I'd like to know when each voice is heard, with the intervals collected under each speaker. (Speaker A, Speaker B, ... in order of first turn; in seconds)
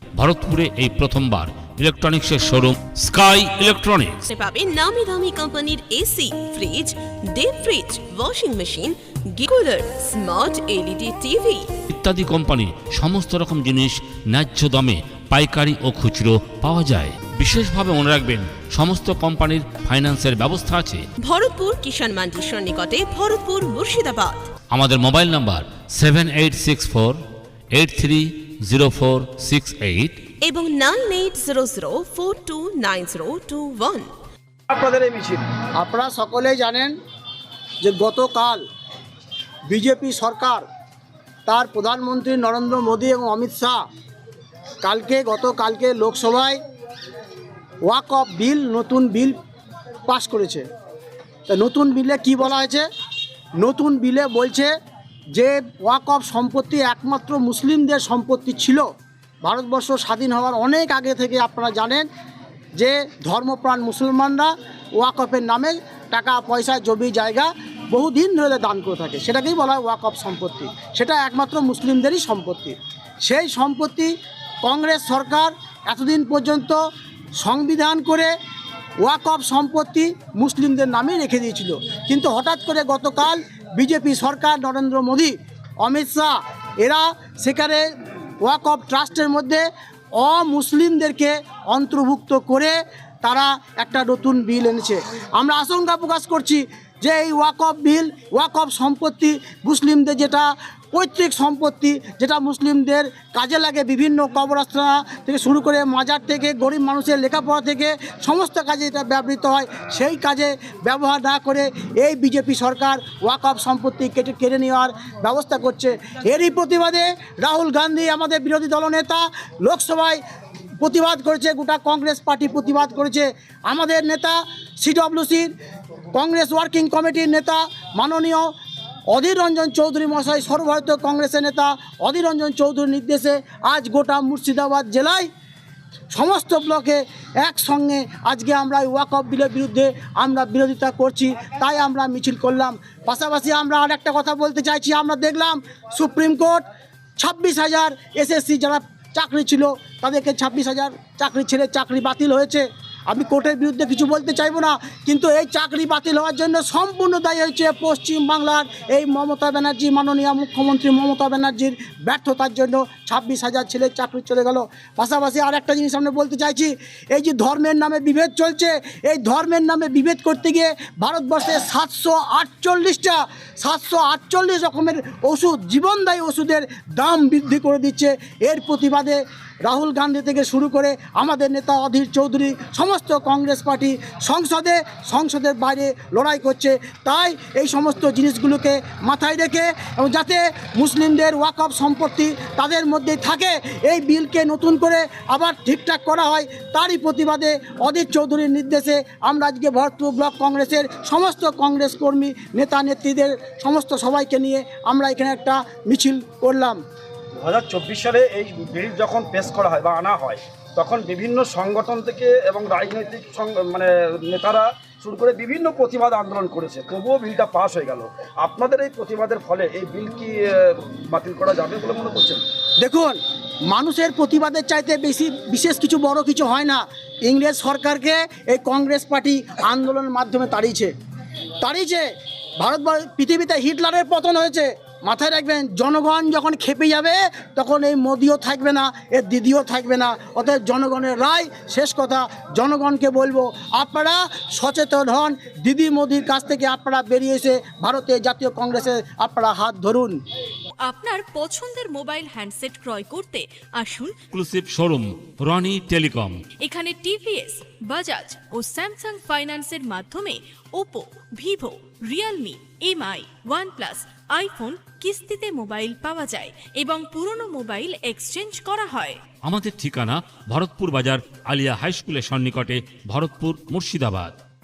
Speaker A: 0.2-4.2, 11.9-21.0, 24.7-27.2, 27.7-30.2, 254.3-256.4, 269.4-274.4
Speaker B: 4.2-11.7, 21.2-24.4, 30.4-34.1
Speaker C: 34.7-35.5, 207.4-222.4
Speaker D: 35.7-37.0, 37.8-38.6, 39.7-40.6, 41.5-43.8, 44.8-46.6, 47.8-49.4, 50.1-50.6, 51.5-52.9, 53.6-54.7, 55.4-58.9, 59.4-62.1, 62.8-76.8, 77.4-78.3, 79.0-87.8, 88.4-89.6, 90.2-120.2, 120.8-125.5, 126.1-128.5, 129.1-135.3, 136.1-146.6, 147.2-206.8, 222.8-230.9, 231.6-232.0, 232.6-250.2
Speaker E: 250.8-254.2, 256.6-269.2